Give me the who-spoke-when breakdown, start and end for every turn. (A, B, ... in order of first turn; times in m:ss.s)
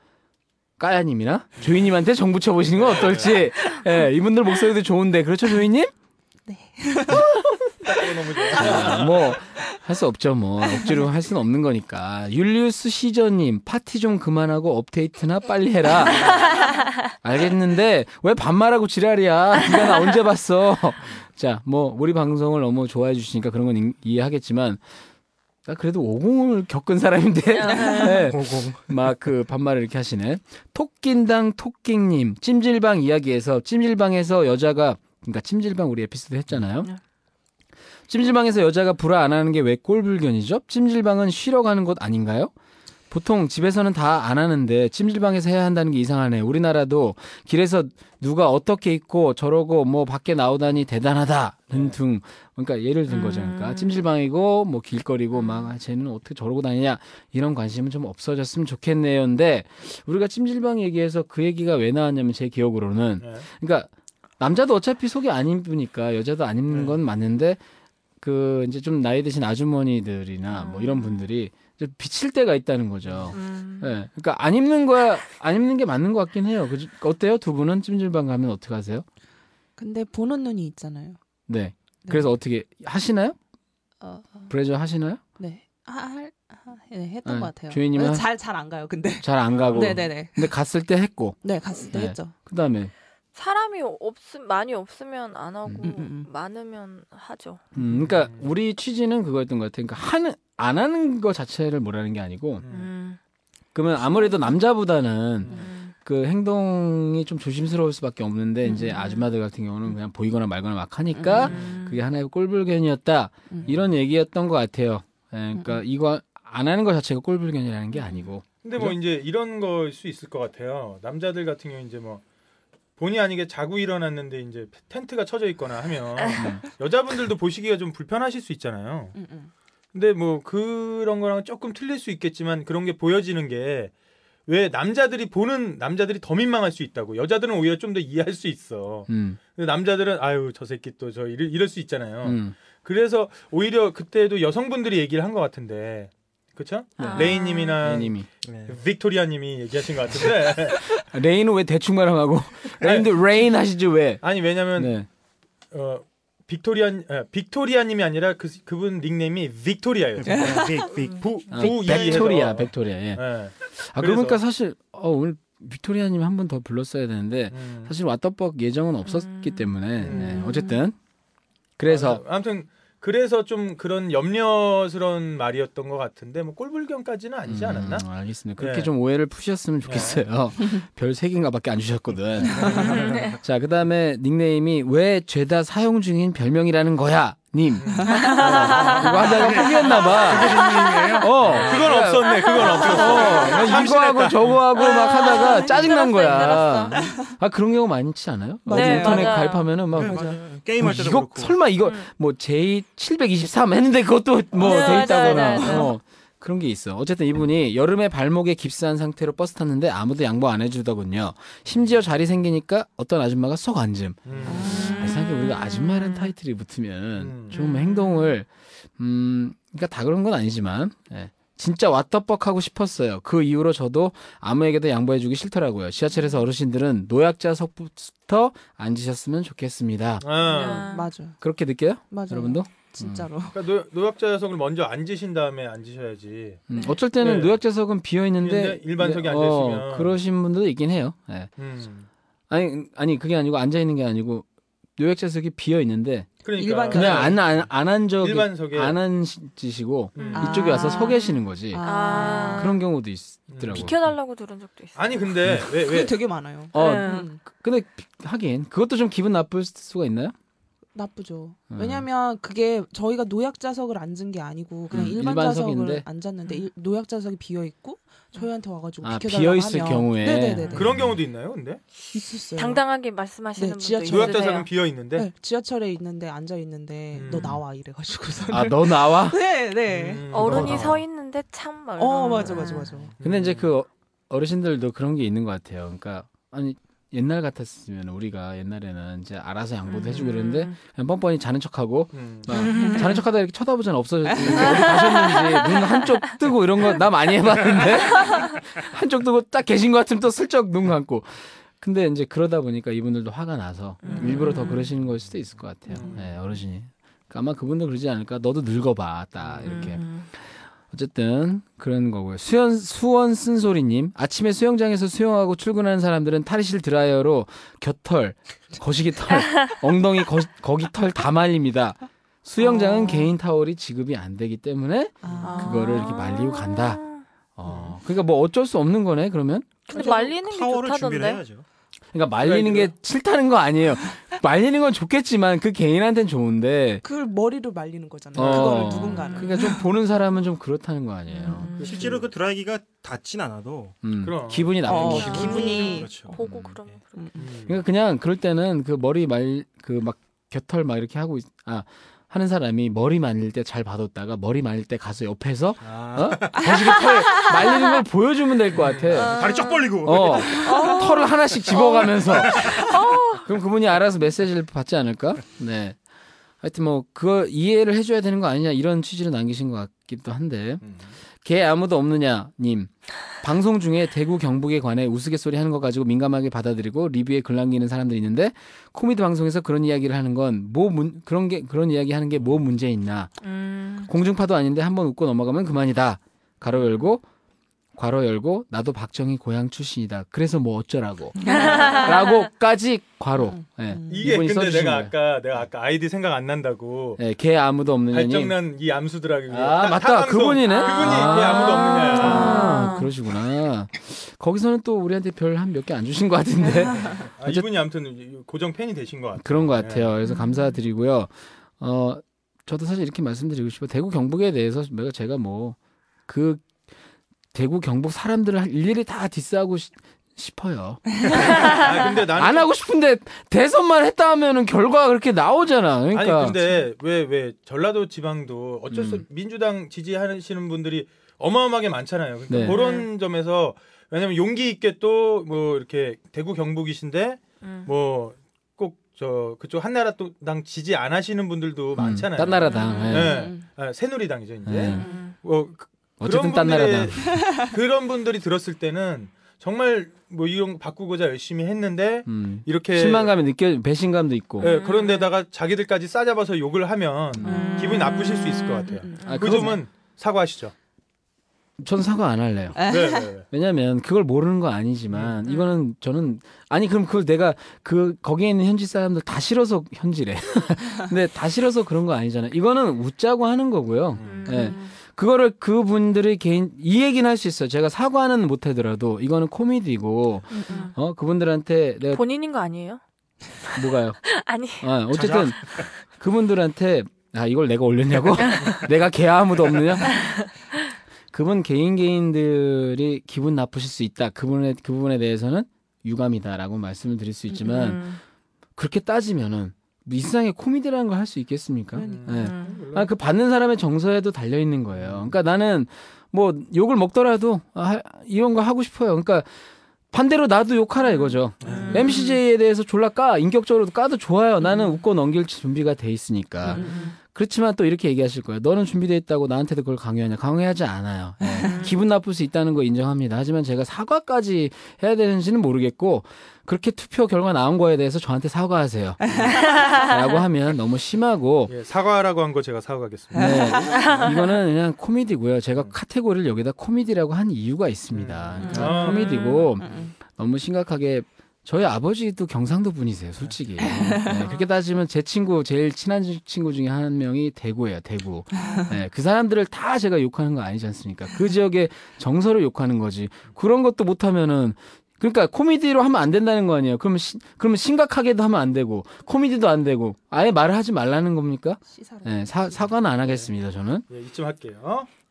0:00.8-0:05.9 A
0:02.7-0:03.5 B
0:06.5-0:09.8 C
0:07.8-0:09.4 B
0:08.5-0:16.6 A
0:10.7-0:11.0 C
0:16.3-0:16.7 D
0:17.1-0:24.8 A
0:25.6-0:36.9 A
0:27.5-0:28.2 D
0:27.9-0:28.9 E
0:38.1-0:42.5 A
0:43.1-1:07.6 A
0:53.1-0:54.0 D
0:55.4-0:55.7 D
1:03.2-1:03.5 B
1:06.7-1:07.0 E
1:08.2-1:19.0 A
1:10.5-1:11.3 D
1:13.3-1:13.9 D
1:19.8-1:21.2 C
1:21.5-1:23.4 A
1:22.0-1:22.3 C
1:24.0-1:24.5 C
1:24.5-1:25.2 A
1:25.4-1:30.5 C
1:27.2-1:28.2 A
1:29.2-1:31.4 A
1:29.5-1:30.0 B
1:31.4-1:32.3 C
1:31.9-1:32.9 A
1:33.4-1:37.6 D
1:35.8-1:36.3 C
1:37.8-1:42.6 A
1:37.8-1:38.5 B
1:42.6-1:42.9 B
1:42.7-1:43.2 D
1:43.7-1:59.0 A
1:45.4-1:45.7 B
1:45.4-1:45.9 D
1:48.6-1:49.0 C
1:48.9-1:49.3 D
1:51.1-1:51.5 C
1:51.4-1:52.0 D
1:51.5-1:51.8 B
1:58.6-2:02.2 B
2:03.0-2:09.2 B
2:06.4-2:06.6 A
2:09.1-2:09.5 C
2:09.9-2:13.9 B
2:14.5-2:31.0 B
2:19.1-2:19.4 A
2:22.2-2:22.6 A
2:27.0-2:28.3 A
2:27.0-2:27.8 D
2:28.4-2:28.8 E
2:31.0-2:34.2 A
2:32.8-2:33.1 B
2:34.2-2:34.9 B
2:34.8-2:35.1 A
2:35.7-2:44.4 B
2:40.2-2:42.3 E
2:40.2-2:40.9 C
2:41.5-2:51.0 A
2:47.5-2:47.9 B
2:49.0-2:50.8 D
2:50.0-2:50.4 B
2:51.8-2:52.2 A
2:51.9-2:58.1 B
2:57.4-3:02.9 A
2:58.6-2:58.9 B
2:59.8-3:00.2 B
3:02.6-3:02.8 C
3:02.6-3:03.4 E
3:02.8-3:03.4 D
3:03.4-3:20.2 A
3:07.8-3:09.0 B
3:08.0-3:08.3 C
3:08.1-3:09.8 D
3:08.9-3:11.8 E
3:09.6-3:10.2 B
3:11.4-3:14.7 B
3:12.2-3:13.8 D
3:14.7-3:17.0 D
3:16.9-3:17.3 C
3:18.7-3:19.4 C
3:18.7-3:19.7 D
3:19.9-3:21.6 E
3:20.0-3:20.4 C
3:20.8-3:50.2 A
3:24.6-3:25.9 D
3:24.6-3:25.9 C
3:34.2-3:34.8 B
3:34.4-3:35.1 C
3:34.5-3:36.3 D
3:37.2-3:37.6 B
3:37.5-3:38.3 D
3:50.2-3:50.9 B
3:50.4-3:51.1 D
3:50.5-3:51.4 C
3:51.4-3:53.3 A
3:52.1-3:53.6 C
3:53.5-3:56.6 B
3:56.7-4:01.5 A
3:56.8-3:57.0 D
3:57.2-3:57.6 B
3:58.4-4:00.2 B
4:01.6-4:02.1 B
4:02.5-4:04.4 A
4:05.0-4:06.4 A
4:06.4-4:09.0 B
4:06.5-4:07.4 C
4:06.9-4:14.0 A
4:10.2-4:12.8 D
4:10.3-4:12.8 C
4:13.5-4:13.9 B
4:13.7-4:15.4 D
4:15.0-4:16.2 B
4:15.7-4:17.4 C
4:16.7-4:20.4 A
4:16.7-4:17.3 D
4:21.0-4:30.9 C
4:21.7-4:22.1 A
4:24.9-4:26.0 A
4:29.0-4:31.2 A
4:30.4-4:30.9 D
4:30.7-4:31.8 B
4:32.1-4:32.8 C
4:32.6-4:34.7 D
4:33.6-4:34.6 C
4:34.1-4:35.3 B
4:35.2-4:40.7 C
4:37.1-4:37.6 B
4:38.5-4:39.4 A
4:39.9-4:41.0 B
4:40.3-4:43.0 D
4:40.6-4:40.9 A
4:40.6-4:41.0 E
4:42.0-4:43.1 C
4:43.2-4:43.7 B
4:43.2-5:10.2 A
4:49.9-4:50.7 D
4:52.1-4:52.7 B
4:52.5-4:53.2 D
4:52.7-4:53.2 C
4:54.3-4:54.8 C
4:54.6-4:56.1 D
4:58.1-4:58.4 D
5:04.0-5:04.9 D
5:05.9-5:06.4 B
5:09.4-5:09.9 B
5:09.6-5:10.3 D
5:10.9-5:27.0 A
5:22.6-5:23.3 D
5:25.2-5:26.1 C
5:25.2-5:25.5 E
5:25.6-5:27.2 D
5:27.6-5:29.8 A
5:29.9-5:31.4 D
5:29.9-5:30.3 C
5:29.9-5:31.6 E
5:32.1-5:37.0 A
5:32.4-5:32.9 B
5:37.0-5:39.8 C
5:38.4-5:41.7 A
5:38.4-5:39.0 B
5:39.1-5:39.5 D
5:41.3-5:42.0 D
5:41.8-5:42.3 B
5:41.8-5:44.0 E
5:44.0-5:45.6 A
5:44.2-5:45.9 B
5:44.8-5:46.2 C
5:44.9-5:47.0 E
5:45.4-5:47.3 D
5:47.2-5:47.5 C
5:47.4-5:47.8 B
5:47.7-5:59.4 A
5:55.8-5:57.1 E
5:57.1-5:58.0 D
5:58.7-5:59.3 B
5:59.1-6:03.5 D
5:59.2-6:01.9 E
6:00.0-6:06.0 A
6:00.5-6:01.0 C
6:02.4-6:02.9 E
6:06.6-6:10.8 A
6:10.8-6:11.1 B
6:11.4-6:23.3 A
6:23.4-6:24.1 D
6:24.0-6:27.2 A
6:26.7-6:27.0 B
6:28.0-6:35.1 A
6:31.4-6:32.1 C
6:31.4-6:32.4 D
6:33.4-6:34.4 C
6:34.1-6:37.2 B
6:37.2-6:38.6 A
6:38.1-6:42.8 B
6:39.5-6:47.7 A
6:40.6-6:43.1 D
6:47.4-6:50.1 B
6:49.4-6:55.8 A
6:56.3-6:56.7 A
6:57.5-7:06.6 A
7:01.4-7:02.7 B
7:06.1-7:33.3 B
7:08.9-7:09.2 A
7:12.5-7:12.8 A
7:12.6-7:13.1 D
7:17.6-7:17.9 D
7:22.0-7:23.5 A
7:22.6-7:23.5 D
7:23.0-7:23.6 C
7:24.6-7:25.0 A
7:24.8-7:25.4 D
7:24.9-7:25.2 C
7:26.2-7:27.4 A
7:32.3-7:34.7 A
7:34.6-7:40.7 B
7:34.6-7:35.4 D
7:37.3-7:37.6 A
7:37.4-7:39.6 D
7:37.4-7:39.7 C
7:39.2-7:39.8 A
7:41.8-7:42.9 A
7:42.7-7:43.3 C
7:42.8-7:43.5 B
7:43.5-8:02.2 A
7:45.1-7:45.4 B
7:54.1-7:54.6 B
7:54.2-7:54.9 D
8:00.5-8:00.9 C
8:00.5-8:00.9 D
8:02.1-8:03.0 D
8:03.7-8:04.9 D
8:03.7-8:04.2 A
8:04.8-8:10.3 A
8:05.1-8:05.9 E
8:08.4-8:08.8 D
8:10.1-8:10.5 D
8:11.3-8:18.2 A
8:17.5-8:18.2 D
8:18.8-8:29.5 A
8:21.9-8:22.7 C
8:22.0-8:23.1 B
8:22.3-8:22.8 D
8:30.1-8:51.7 A
8:31.6-8:31.9 B
8:31.8-8:32.2 C
8:31.9-8:32.4 D
8:36.7-8:37.1 C
8:36.8-8:37.1 D
8:41.5-8:41.7 C
8:41.6-8:41.9 D
8:49.3-8:49.8 B
8:49.7-8:50.0 D
8:51.7-8:54.2 B
8:53.3-8:53.8 C
8:53.4-9:24.1 A
8:53.9-8:54.2 E
8:53.9-8:54.4 D
8:58.1-8:59.5 B
8:58.6-8:59.2 C
8:58.7-8:59.8 D
8:59.8-9:00.1 C
9:03.8-9:04.4 C
9:04.2-9:04.7 D
9:08.5-9:09.0 C
9:21.9-9:23.0 C
9:24.1-9:25.1 B